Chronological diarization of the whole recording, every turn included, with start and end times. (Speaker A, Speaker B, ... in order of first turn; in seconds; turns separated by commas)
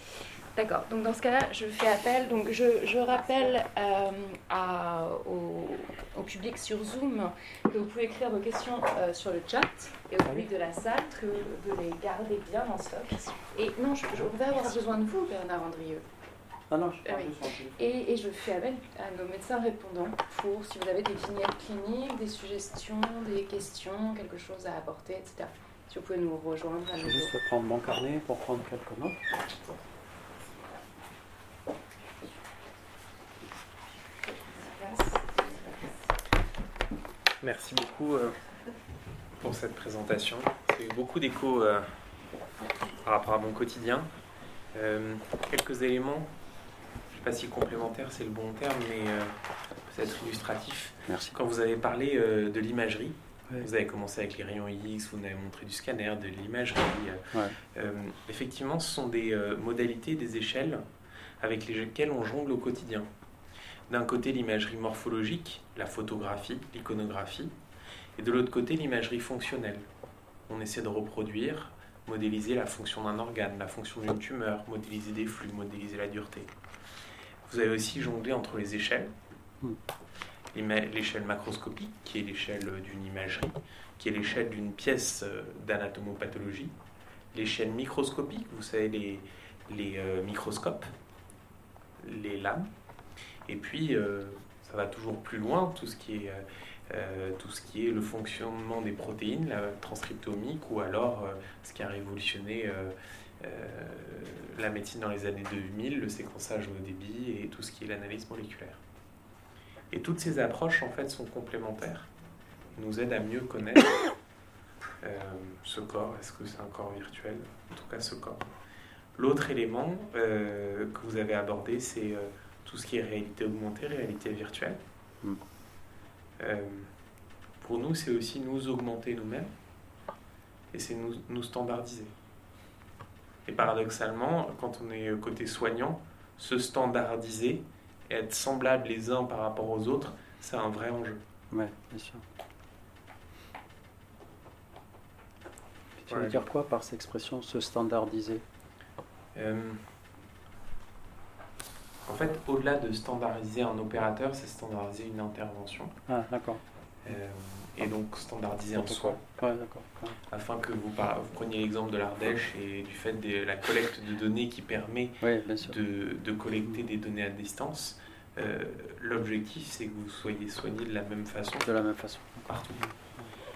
Speaker A: 0.6-16.1, Speaker B: 16.7-17.8, Speaker A: 17.1-27.3, Speaker B: 27.0-29.2, Speaker A: 34.2-36.0, Speaker C: 37.4-38.4, Speaker C: 39.4-42.0, Speaker C: 42.9-44.1, Speaker C: 44.7-46.3, Speaker C: 47.1-49.3, Speaker C: 49.9-60.9, Speaker B: 51.1-51.4, Speaker B: 57.3-57.6, Speaker C: 61.4-63.1, Speaker C: 63.9-67.5, Speaker C: 68.2-69.9, Speaker C: 70.5-76.5, Speaker C: 77.5-79.1, Speaker C: 80.5-86.7, Speaker C: 87.3-90.9, Speaker C: 92.0-92.7, Speaker C: 93.5-108.8, Speaker C: 109.9-112.1, Speaker C: 112.8-113.9, Speaker C: 115.0-118.5, Speaker C: 119.2-124.8, Speaker C: 126.4-126.9, Speaker C: 127.6-129.5, Speaker C: 130.7-132.1, Speaker C: 133.5-141.2, Speaker B: 141.5-142.2, Speaker B: 146.1-148.4, Speaker C: 146.1-146.4, Speaker C: 149.3-149.9, Speaker C: 152.1-155.9, Speaker B: 156.1-156.6, Speaker C: 157.1-159.2, Speaker B: 158.8-160.2, Speaker C: 160.3-171.7, Speaker B: 165.2-165.8, Speaker B: 171.6-173.3, Speaker C: 172.5-172.8